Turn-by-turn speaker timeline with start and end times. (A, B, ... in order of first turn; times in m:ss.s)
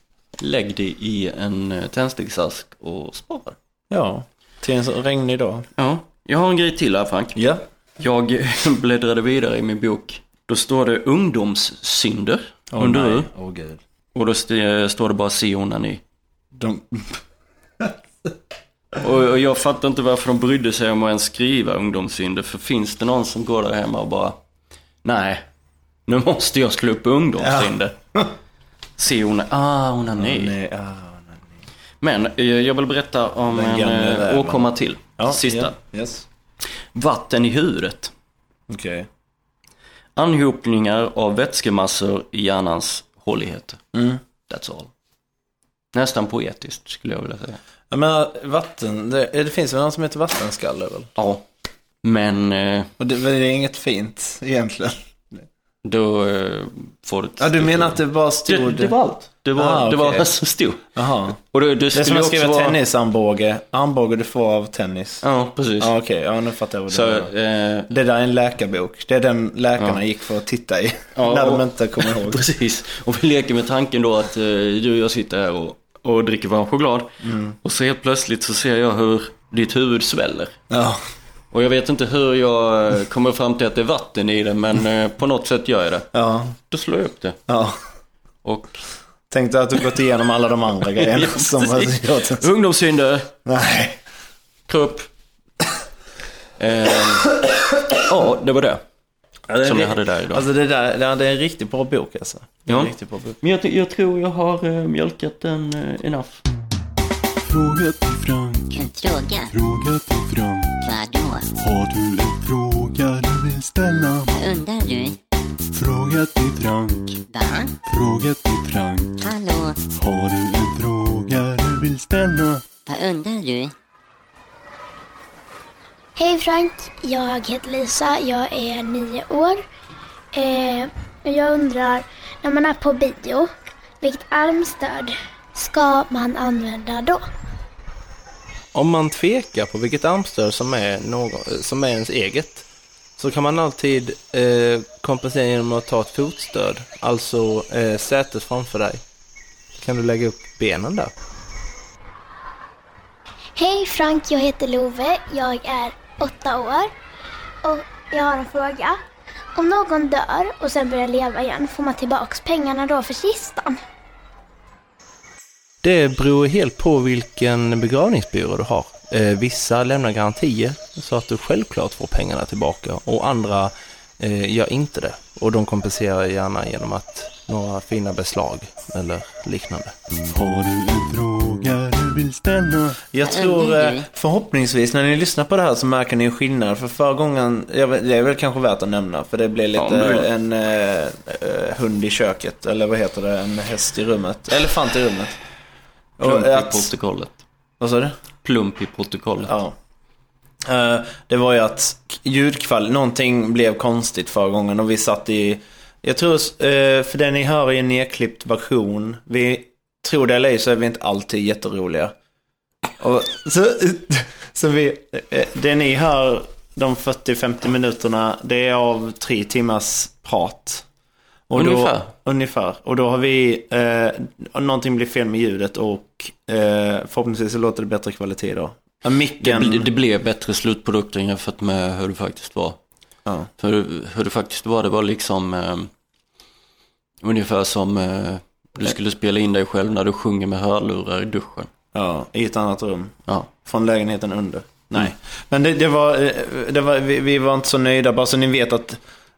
0:00.4-0:03.6 A
0:03.9-0:05.6 B
0:05.8-0:07.4 A
0:07.4-0:07.6 B
0:08.0-0:13.3 A
0:12.7-0:13.8 B
0:14.1-0:16.0 A
0:16.6-0:17.1 B
0:19.0-0:24.4 A
0:25.0-0:25.4 A
0:26.1-0:28.0 A
0:27.4-0:28.3 B
0:29.0-0:30.6 A
0:30.1-0:31.6 B
0:32.0-0:35.8 A
0:33.5-0:34.7 B
0:35.2-0:36.3 B
0:36.9-0:38.1 A
0:38.7-0:39.1 B
0:40.2-0:43.8 A
0:43.9-0:44.2 B
0:44.5-0:44.9 A
0:45.9-0:47.6 A
0:47.9-0:51.1 B
0:51.2-0:51.4 A
0:52.0-0:52.9 A
0:53.0-0:55.4 B
0:55.8-1:02.8 A
0:57.4-0:58.9 B
0:59.6-1:00.3 B
1:00.9-1:01.4 B
1:01.9-1:05.2 B
1:05.2-1:05.9 A
1:05.8-1:07.3 B
1:06.9-1:07.9 A
1:07.9-1:12.4 B
1:11.1-1:20.6 A
1:17.2-1:17.6 B
1:20.7-1:21.0 B
1:21.5-1:26.1 A
1:26.1-1:26.6 B
1:26.7-1:27.4 A
1:27.5-1:27.8 B
1:28.4-1:28.8 A
1:29.3-1:32.4 B
1:31.0-1:33.4 A
1:33.4-1:34.0 B
1:34.7-1:35.1 A
1:36.6-1:37.4 A
1:37.9-1:38.8 A
1:39.5-1:43.4 B
1:39.6-1:40.4 A
1:42.6-1:46.4 A
1:47.4-1:48.9 C
1:48.7-1:49.5 D
1:49.5-1:50.8 C
1:50.8-1:51.6 D
1:51.6-1:54.5 C
1:54.3-1:55.2 D
1:55.7-1:57.2 C
1:57.3-1:57.7 D
1:57.9-1:59.2 C
1:59.2-1:59.8 D
1:59.8-2:02.7 C
2:02.9-2:03.7 D
2:06.2-2:09.6 E
2:10.3-2:13.5 E
2:14.0-2:17.2 E
2:18.8-2:22.3 F
2:23.2-2:28.9 F
2:29.9-2:31.0 F
2:33.6-2:36.9 E
2:37.6-2:39.0 E
2:39.6-2:43.8 E
2:46.0-2:47.5 F
2:49.5-2:50.4 F
2:51.2-2:53.6 F
2:54.3-2:54.9 F
2:55.4-2:56.2 F
2:57.5-2:58.2 F
3:00.2-3:03.1 C
3:03.1-3:15.4 B
3:03.2-3:04.0 D
3:09.8-3:10.3 A
3:16.2-3:16.9 B
3:16.2-3:17.4 A
3:17.8-3:18.1 B
3:18.4-3:19.5 A
3:19.4-3:19.8 B
3:20.6-3:32.1 B
3:33.0-3:40.8 B
3:41.5-3:49.9 B
3:41.5-3:42.1 A
3:49.4-3:52.8 A
3:53.6-3:55.9 A
3:57.2-4:01.7 A
4:01.9-4:09.0 B